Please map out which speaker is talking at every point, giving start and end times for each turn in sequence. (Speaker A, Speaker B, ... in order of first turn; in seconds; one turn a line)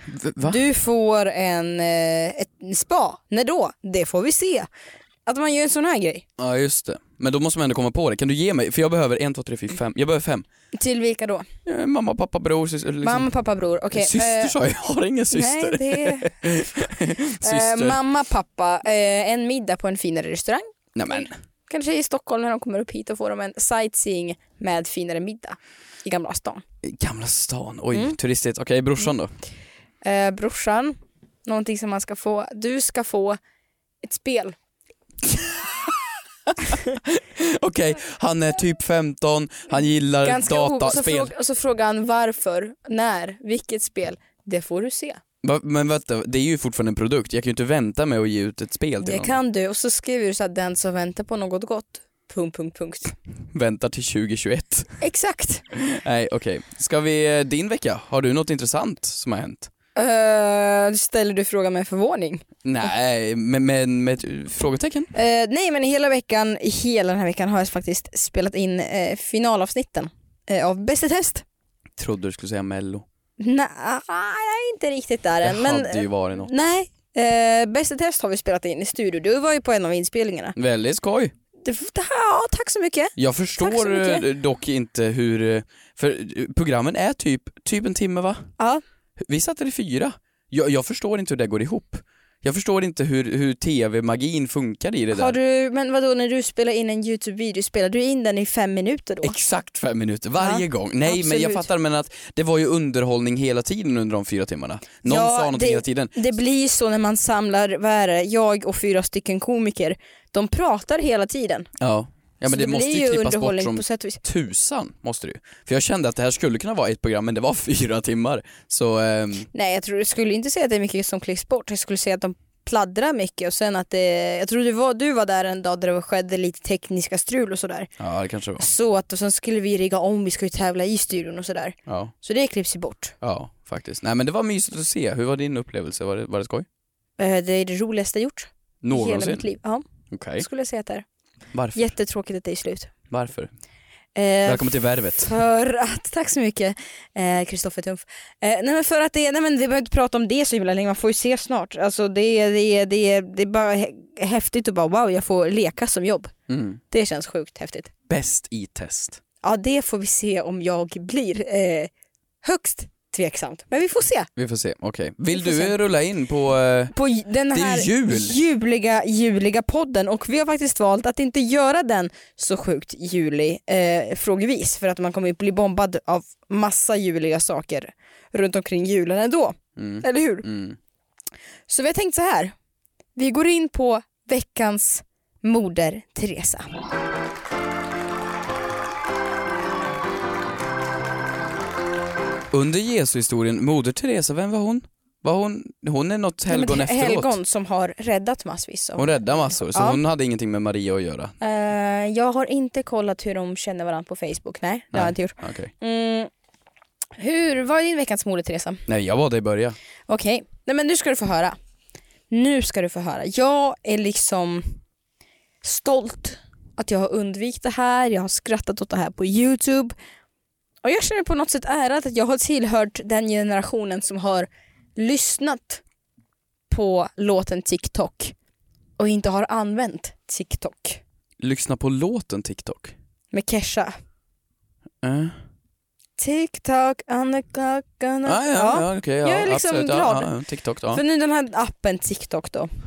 Speaker A: 0.1-0.6
Speaker B: 0.4-4.7
Speaker B: 5.2-6.2
Speaker A: 6.4-10.4
Speaker B: 10.7-11.5
Speaker A: 11.7-13.3
Speaker B: 13.0-14.6
Speaker A: 13.9-18.0
Speaker B: 15.3-16.3
Speaker B: 17.4-26.6
Speaker A: 20.9-21.3
Speaker A: 26.8-29.3
Speaker B: 30.0-33.4
Speaker B: 34.0-34.5
Speaker A: 35.2-36.1
Speaker A: 36.7-41.3
Speaker B: 40.2-45.2
Speaker A: 45.4-49.3
Speaker B: 49.0-53.1
Speaker A: 53.5-55.0
Speaker B: 55.0-55.6
Speaker A: 55.9-59.7
Speaker B: 60.0-62.4
Speaker A: 62.6-65.1
Speaker B: 65.1-71.4
Speaker A: 72.0-73.0
Speaker B: 73.4-80.5
Speaker A: 75.4-76.5
Speaker A: 80.5-81.3
Speaker B: 81.6-84.2
Speaker A: 83.2-88.5
Speaker A: 89.2-95.4
Speaker B: 95.1-99.4
Speaker A: 99.2-106.1
Speaker B: 100.4-101.7
Speaker B: 105.0-111.7
Speaker A: 111.8-119.5
Speaker B: 112.5-114.2
Speaker B: 119.5-127.9
Speaker A: 128.0-128.7
Speaker B: 128.6-133.1
Speaker A: 131.9-132.1
Speaker A: 133.2-136.7
Speaker B: 137.2-139.8
Speaker A: 138.8-139.4
Speaker A: 140.1-140.4
Speaker B: 140.4-141.0
Speaker A: 141.5-141.9
Speaker B: 141.7-142.9
Speaker A: 143.1-143.5
Speaker B: 144.2-156.3
Speaker A: 144.4-145.3
Speaker A: 156.5-156.8
Speaker B: 156.9-157.9
Speaker A: 158.1-159.2
Speaker B: 159.4-161.9
Speaker B: 162.4-164.3
Speaker A: 164.3-166.9
Speaker B: 165.3-165.7
Speaker B: 166.9-180.5
Speaker A: 167.5-168.3
Speaker A: 179.8-180.8
Speaker B: 181.7-182.5
Speaker B: 183.2-186.7
Speaker A: 192.5-197.4
Speaker B: 196.5-200.0
Speaker A: 199.0-201.3
Speaker B: 201.4-206.3
Speaker A: 204.9-205.7
Speaker B: 207.2-208.8
Speaker A: 208.9-209.8
Speaker B: 210.1-211.6
Speaker B: 212.3-214.7
Speaker B: 215.6-219.9
Speaker B: 220.8-225.8
Speaker B: 226.7-228.3
Speaker B: 229.0-231.0
Speaker A: 231.4-232.9
Speaker B: 233.3-233.9
Speaker A: 235.0-235.3
Speaker B: 236.2-240.3
Speaker A: 238.2-241.0
Speaker B: 240.9-242.7